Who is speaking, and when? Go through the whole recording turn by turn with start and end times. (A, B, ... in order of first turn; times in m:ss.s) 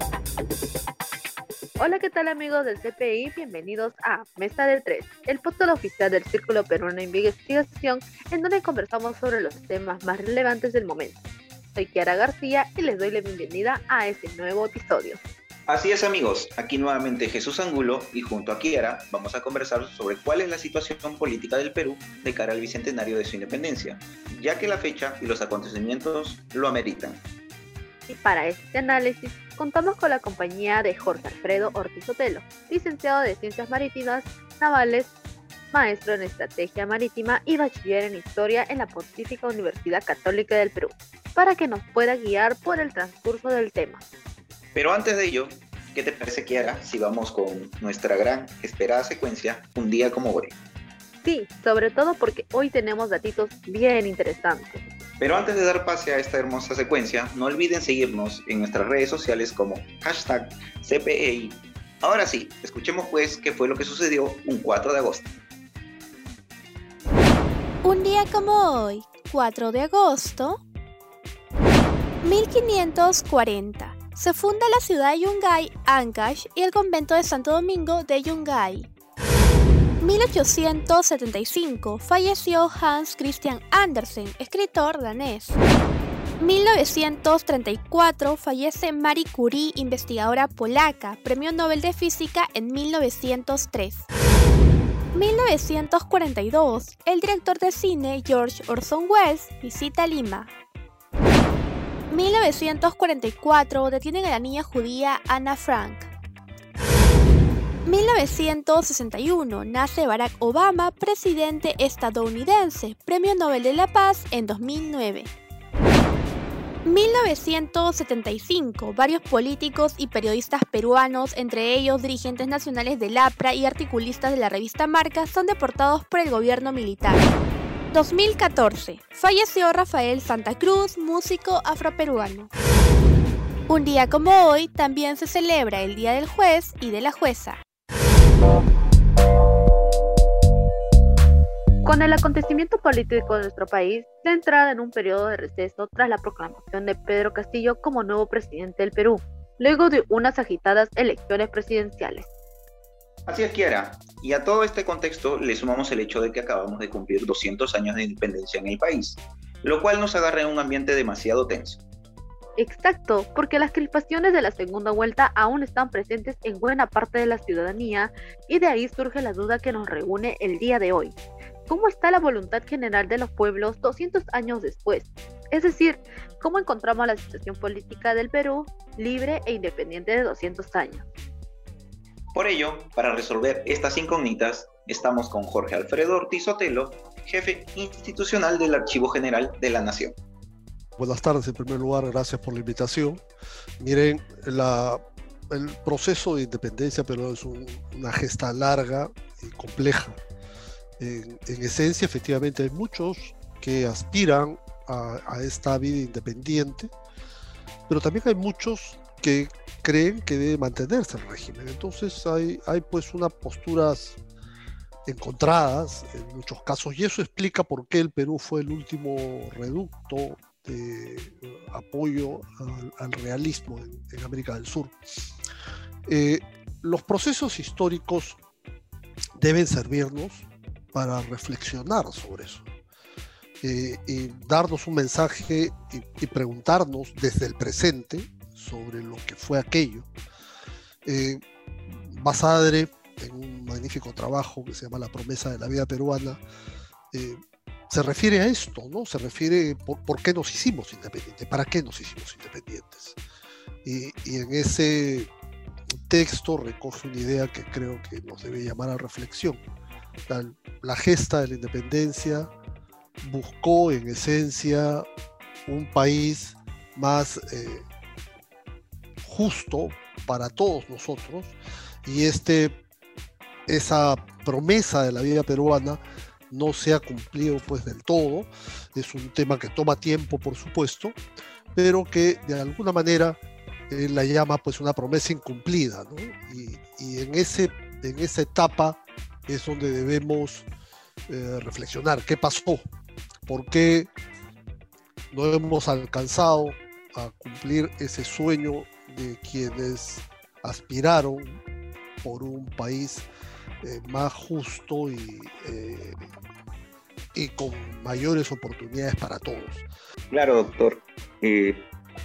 0:01.8-0:11.2 A
0:11.8-0:15.2 A
0:15.7-0:27.2 B
0:28.1-0:35.1 A
0:35.7-0:44.0 A
0:44.8-0:50.6 B
0:51.2-0:54.8 A
0:55.2-1:05.3 B
1:07.8-1:10.6 C
1:12.2-1:18.9 C
1:20.0-1:25.6 C
1:26.4-1:34.1 C
1:35.1-1:40.5 C
1:42.1-1:46.1 C
1:47.8-1:55.3 C
1:56.8-2:07.2 C
2:07.9-2:12.5 C
2:13.7-2:17.6 C
2:21.8-2:32.3 A
2:33.3-2:41.8 B
2:42.6-2:51.2 A
2:51.7-3:01.1 A
3:02.4-3:10.2 B
3:11.0-3:13.2 D
3:13.8-3:20.2 D
3:21.0-3:26.9 D
3:27.9-3:34.2 D
3:35.1-3:45.0 D
3:46.1-3:48.4 D
3:49.4-3:52.7 D
3:53.6-4:00.1 D
4:01.0-4:06.4 D
4:07.1-4:13.2 D
4:13.8-4:15.3 D
4:16.1-4:19.6 D
4:20.3-4:22.5 D
4:23.2-4:25.1 D
4:25.7-4:27.8 D
4:29.2-4:32.8 D
4:33.7-4:36.0 D
4:36.5-4:41.2 D
4:41.8-4:43.4 D
4:43.9-4:50.7 D
4:51.3-4:52.8 D
4:53.5-4:54.1 D
4:55.3-5:01.6 D
5:02.2-5:03.3 D
5:03.8-5:06.2 D
5:07.3-5:09.9 D
5:10.3-5:11.8 B